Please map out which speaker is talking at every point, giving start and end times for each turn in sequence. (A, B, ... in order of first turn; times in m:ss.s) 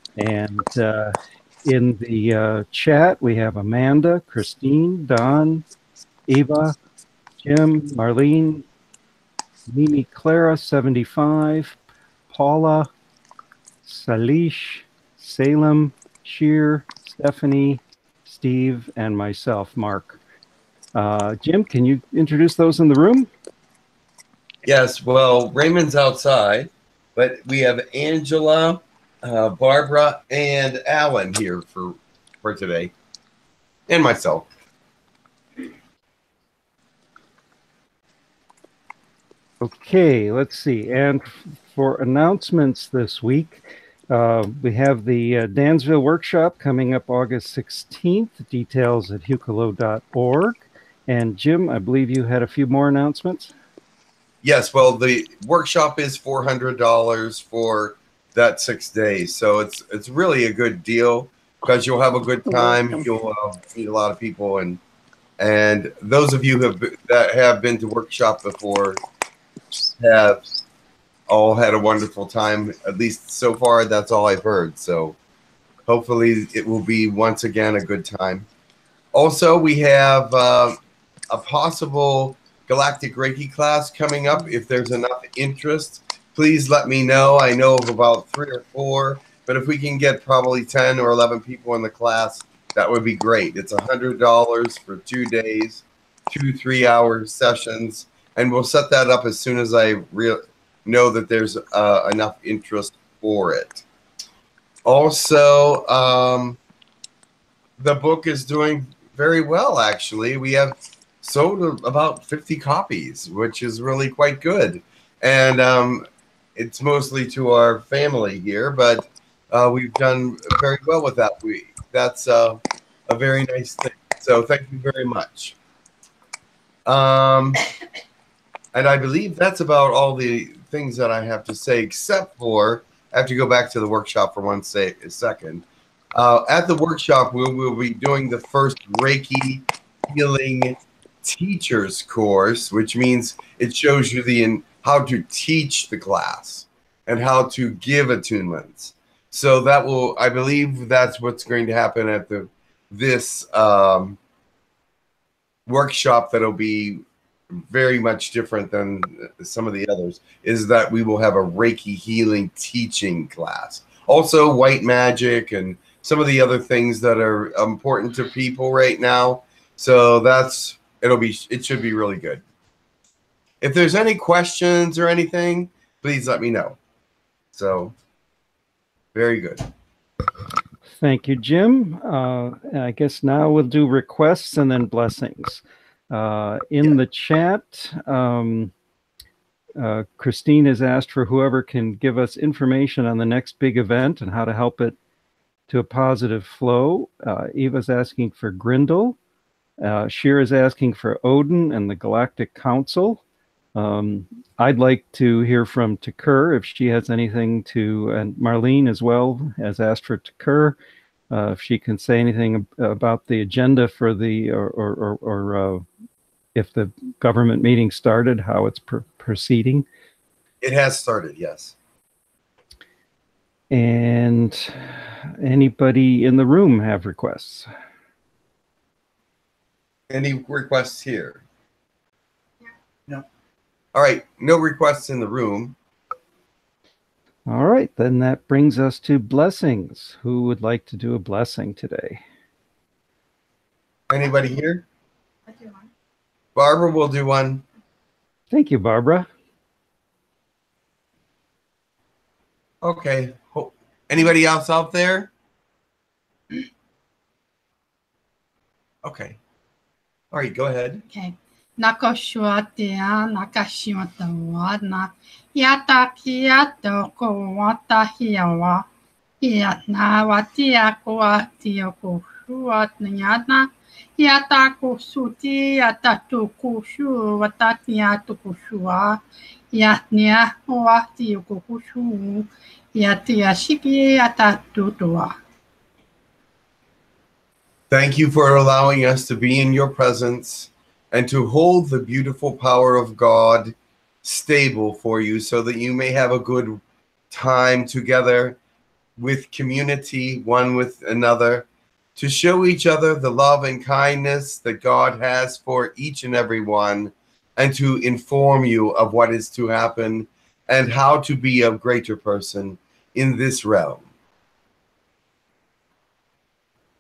0:00.2-0:05.6 A
0:06.3-0:06.8 A
0:07.4-0:08.6 A
0:09.7-0:11.8 A
0:12.3-0:12.9 A
0:13.8-0:20.2 A
0:21.0-0:23.3 A
0:24.6-0:32.9 B
0:33.9-0:34.5 B
0:39.6-0:53.5 A
0:54.4-1:04.8 B
1:05.4-1:09.0 B
1:10.0-1:10.4 B
1:11.3-1:15.2 B
1:15.9-1:18.5 B
1:19.1-1:20.8 B
1:21.3-1:43.8 B
1:44.8-1:46.6 B
1:47.8-1:56.0 B
1:56.6-2:05.6 B
2:06.8-2:07.6 B
2:08.7-2:34.2 B
2:35.7-2:52.4 B
2:53.6-2:56.8 B
2:57.5-2:57.9 B
2:59.1-2:59.7 B
3:01.0-3:08.7 A
3:09.8-3:15.0 A
3:15.7-3:19.2 A
3:19.8-3:23.2 A
3:23.8-3:30.8 A
3:31.3-3:35.8 A
3:36.5-3:39.8 A
3:40.6-3:41.8 B
3:43.7-3:47.7 A
3:50.1-3:51.4 B
3:53.9-3:55.8 B
3:57.5-4:02.2 A
4:04.1-4:04.8 B
4:05.5-4:05.9 C
4:06.5-4:07.6 B
4:08.5-4:09.3 A
4:12.8-4:15.3 B
4:19.0-4:19.4 B
4:20.3-4:21.0 B
4:21.1-4:28.9 C
4:29.4-4:45.4 C
4:47.9-4:58.6 B
4:59.2-5:14.0 B